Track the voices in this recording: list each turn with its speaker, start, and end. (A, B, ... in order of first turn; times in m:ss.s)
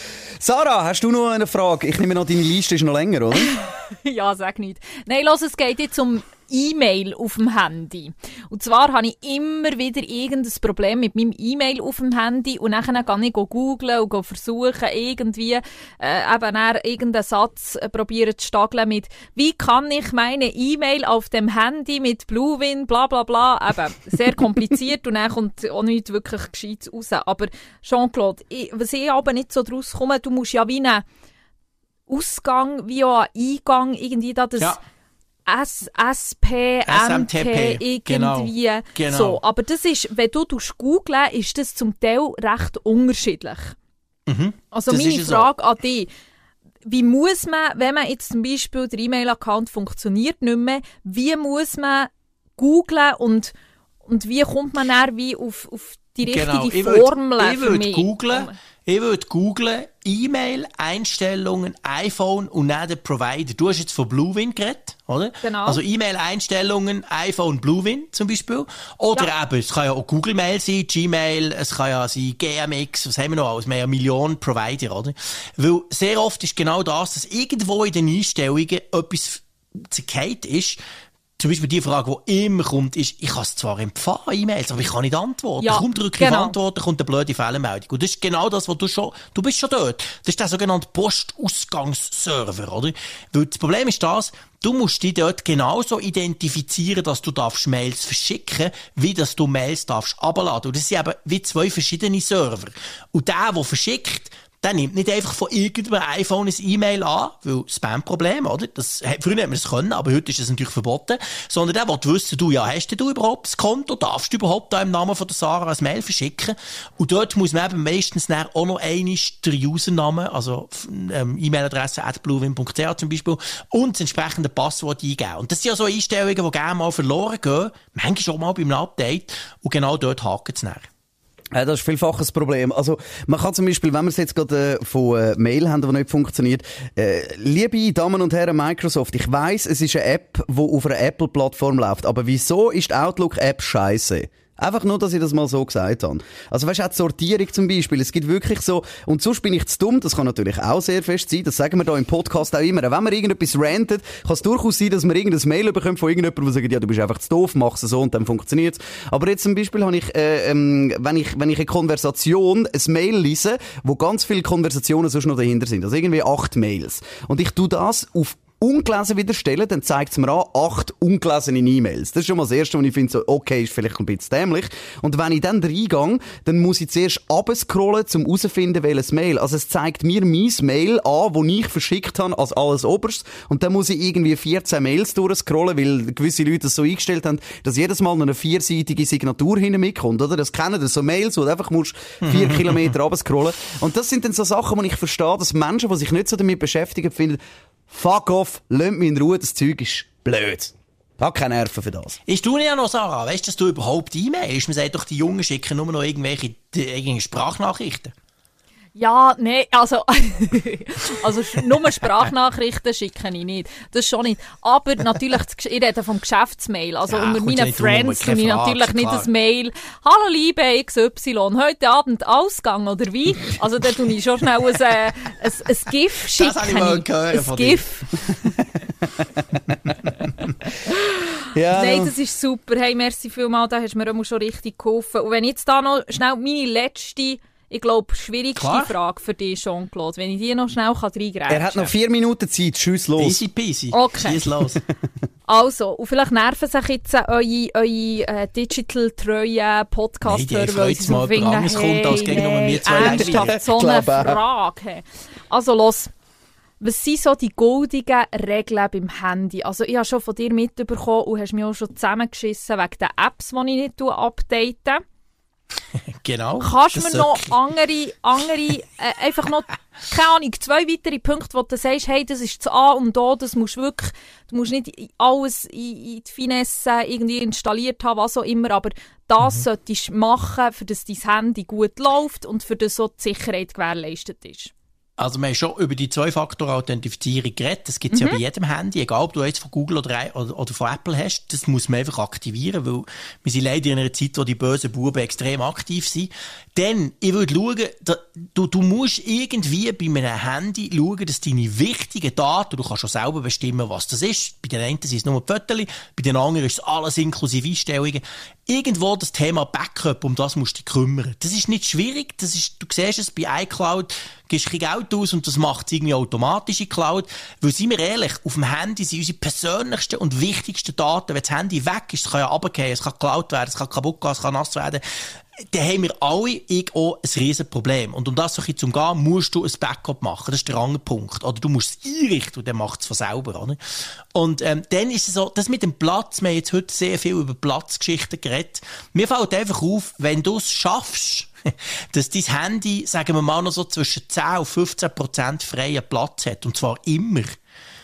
0:00.4-0:03.5 A
0:03.4-0:31.0 B
0:32.1-0:34.8 B
0:35.5-0:43.7 B
0:36.9-0:39.4 C
0:44.3-0:45.5 C
0:44.7-0:46.1 B
0:46.8-0:53.5 B
0:54.1-0:58.5 B
0:56.2-1:20.8 C
1:05.4-1:05.8 B
1:21.4-2:10.9 C
1:25.6-1:26.5 B
2:11.5-3:22.2 A
3:12.2-3:12.9 C
3:22.3-3:28.1 C
3:29.0-3:48.6 B
3:37.1-3:39.3 C
3:46.4-3:47.8 C
3:50.8-3:51.2 B
3:51.5-3:52.1 A
3:51.7-4:01.9 B
3:58.6-3:58.9 C
4:01.5-4:03.4 A
4:03.2-4:04.8 C
4:03.9-4:04.4 B
4:05.5-4:16.1 B
4:10.3-4:13.6 C
4:13.0-4:14.4 A
4:16.8-4:25.0 B
4:26.2-4:27.6 C
4:26.6-4:44.7 B
4:45.2-5:25.0 C
4:48.1-4:48.4 B
5:25.6-5:33.8 C
5:34.3-5:47.6 C